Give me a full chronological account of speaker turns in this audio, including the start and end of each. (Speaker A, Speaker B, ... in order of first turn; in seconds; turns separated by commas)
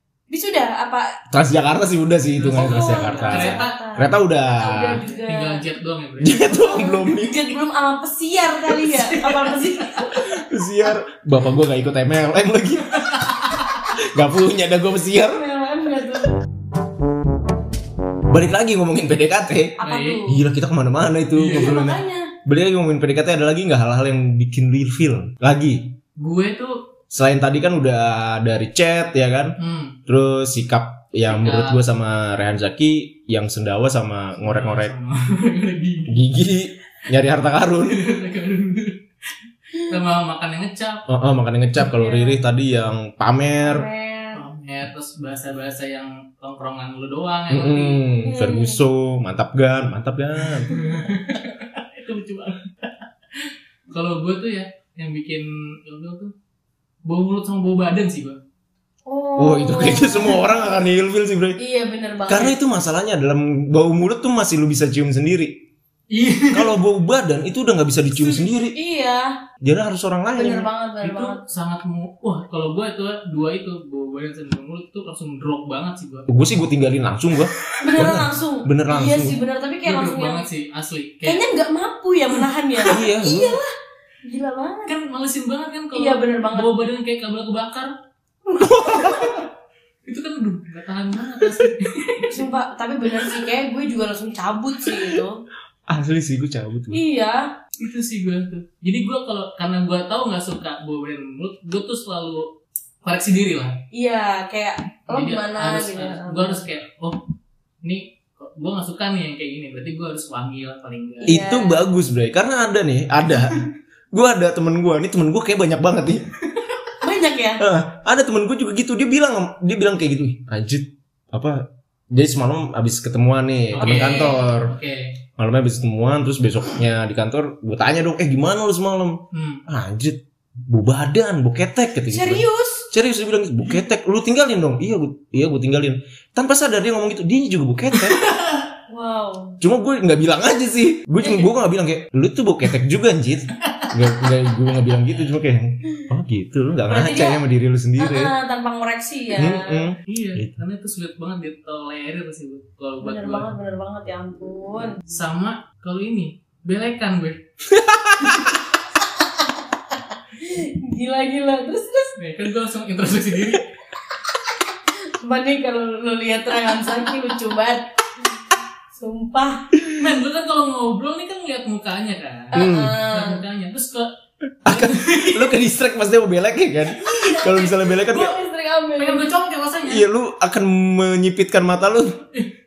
Speaker A: 0.3-1.1, Speaker B: 1.3-5.0, Speaker C: 2.4-3.8, Speaker A: 2.5-5.6, Speaker C: 5.2-6.5, Speaker B: 6.2-7.4, Speaker A: 6.5-10.4, Speaker C: 8.8-10.0, Speaker B: 10.2-13.2, Speaker C: 13.0-13.5, Speaker B: 13.9-15.4, Speaker A: 15.2-16.4, Speaker B: 18.3-26.0, Speaker A: 19.8-20.4, Speaker C: 19.8-20.2, Speaker C: 21.4-21.9, Speaker A: 21.5-22.3, Speaker C: 26.2-26.8, Speaker B: 27.1-29.6, Speaker C: 29.6-30.0, Speaker B: 30.1-34.9, Speaker C: 31.3-31.8, Speaker C: 34.4-36.2, Speaker B: 36.1-38.0, Speaker C: 37.9-39.0, Speaker C: 39.8-41.0, Speaker B: 41.1-43.9, Speaker A: 41.9-42.4, Speaker A: 43.6-44.4, Speaker C: 44.4-48.0, Speaker B: 47.5-50.7, Speaker A: 48.2-48.8, Speaker C: 50.7-56.3, Speaker A: 50.7-51.0, Speaker C: 57.1-58.4, Speaker A: 59.1-60.8, Speaker B: 59.4-61.6, Speaker A: 61.6-62.6, Speaker B: 62.3-65.5, Speaker C: 66.1-66.7, Speaker B: 66.5-68.8, Speaker A: 68.3-69.4, Speaker B: 69.6-70.7, Speaker A: 70.4-71.4, Speaker C: 71.0-76.3, Speaker B: 76.3-79.4, Speaker A: 77.8-80.5, Speaker C: 79.9-81.4, Speaker A: 81.2-83.7, Speaker B: 82.8-83.6, Speaker A: 84.2-85.0, Speaker C: 84.9-87.9, Speaker A: 85.9-86.7, Speaker A: 88.5-89.5, Speaker B: 88.6-89.4, Speaker C: 90.1-92.5, Speaker A: 92.3-95.4, Speaker B: 95.9-97.0, Speaker A: 96.9-97.5, Speaker C: 97.8-102.5, Speaker C: 103.0-103.8, Speaker A: 103.9-106.6, Speaker C: 105.1-107.2, Speaker C: 107.8-111.3, Speaker A: 111.2-111.8, Speaker B: 111.3-116.3, Speaker A: 117.0-117.6, Speaker B: 117.6-124.7, Speaker C: 123.8-125.1, Speaker A: 123.8-124.5, Speaker B: 125.4-138.2, Speaker C: 129.3-129.6, Speaker A: 132.1-132.9, Speaker C: 138.0-138.6, Speaker A: 138.9-139.6, Speaker B: 139.6-148.3, Speaker A: 141.2-141.5, Speaker A: 146.9-147.4, Speaker A: 148.0-149.9, Speaker B: 149.4-150.6, Speaker C: 150.1-153.5, Speaker A: 153.0-155.0, Speaker C: 155.1-157.4, Speaker B: 157.7-158.4, Speaker A: 160.4-162.2, Speaker C: 162.2-163.7, Speaker A: 165.1-167.9, Speaker A: 168.9-169.7, Speaker C: 170.0-174.1, Speaker A: 172.5-173.4, Speaker B: 172.5-173.0, Speaker B: 174.6-178.4, Speaker C: 174.7-175.5, Speaker A: 177.0-179.3, Speaker C: 179.0-180.1, Speaker B: 179.9-182.2